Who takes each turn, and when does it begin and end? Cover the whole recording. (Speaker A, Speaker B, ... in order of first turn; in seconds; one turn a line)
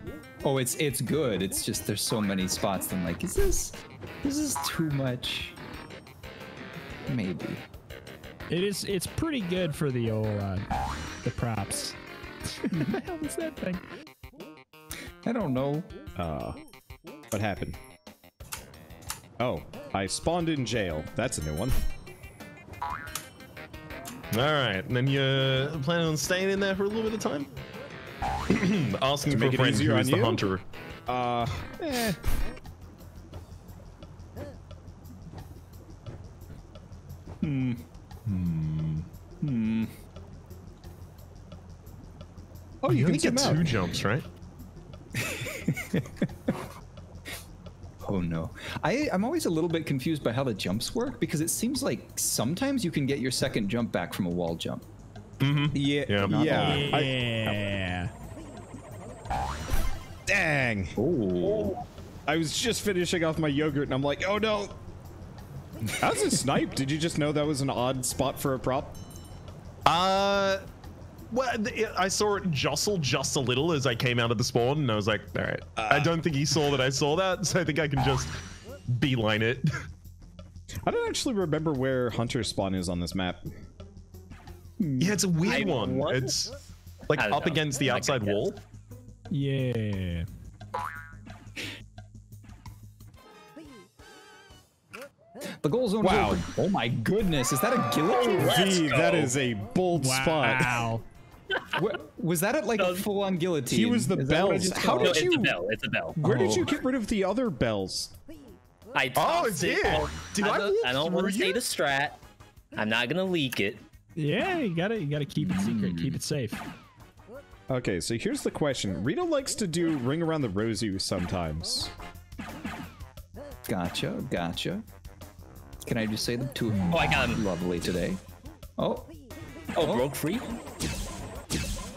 Speaker A: 0.4-5.6
Speaker A: 7.0-7.7
Speaker B: 8.5-10.6
Speaker B: 11.2-12.0
Speaker B: 12.5-13.8
Speaker A: 15.2-15.9
Speaker C: 16.1-16.6
Speaker C: 17.3-17.8
Speaker C: 19.4-21.8
Speaker D: 24.3-27.5
Speaker D: 28.5-30.6
Speaker C: 29.3-30.4
Speaker C: 31.1-32.2
Speaker A: 37.4-37.8
Speaker D: 38.2-39.1
Speaker A: 39.4-39.9
Speaker C: 42.8-43.9
Speaker D: 42.9-44.2
Speaker A: 45.1-46.5
Speaker A: 48.0-54.9
Speaker D: 55.4-56.3
Speaker A: 55.8-57.1
Speaker C: 55.8-57.6
Speaker B: 56.3-58.1
Speaker C: 60.3-61.0
Speaker A: 61.0-61.8
Speaker C: 62.3-64.8
Speaker A: 65.9-66.4
Speaker C: 66.0-69.0
Speaker D: 69.8-70.6
Speaker D: 71.3-78.3
Speaker C: 75.8-76.1
Speaker D: 78.9-79.6
Speaker C: 80.8-83.4
Speaker A: 84.8-85.6
Speaker D: 85.0-86.5
Speaker E: 85.4-86.3
Speaker D: 87.1-88.6
Speaker E: 87.1-88.4
Speaker B: 89.3-90.2
Speaker A: 95.6-98.7
Speaker C: 96.0-96.4
Speaker E: 98.0-99.3
Speaker C: 98.4-100.9
Speaker B: 99.9-101.0
Speaker E: 101.5-101.8
Speaker A: 101.7-105.3
Speaker E: 102.8-103.1
Speaker C: 103.7-105.6
Speaker E: 104.9-106.2
Speaker A: 106.2-106.7
Speaker C: 106.2-108.1
Speaker E: 108.9-112.2
Speaker D: 109.2-111.6
Speaker E: 112.7-113.8
Speaker B: 114.2-116.6
Speaker A: 115.4-116.2
Speaker C: 117.7-121.9
Speaker A: 123.7-124.8
Speaker A: 125.8-128.2
Speaker E: 126.9-127.4
Speaker A: 128.8-129.1
Speaker E: 129.8-130.5
Speaker A: 129.8-130.1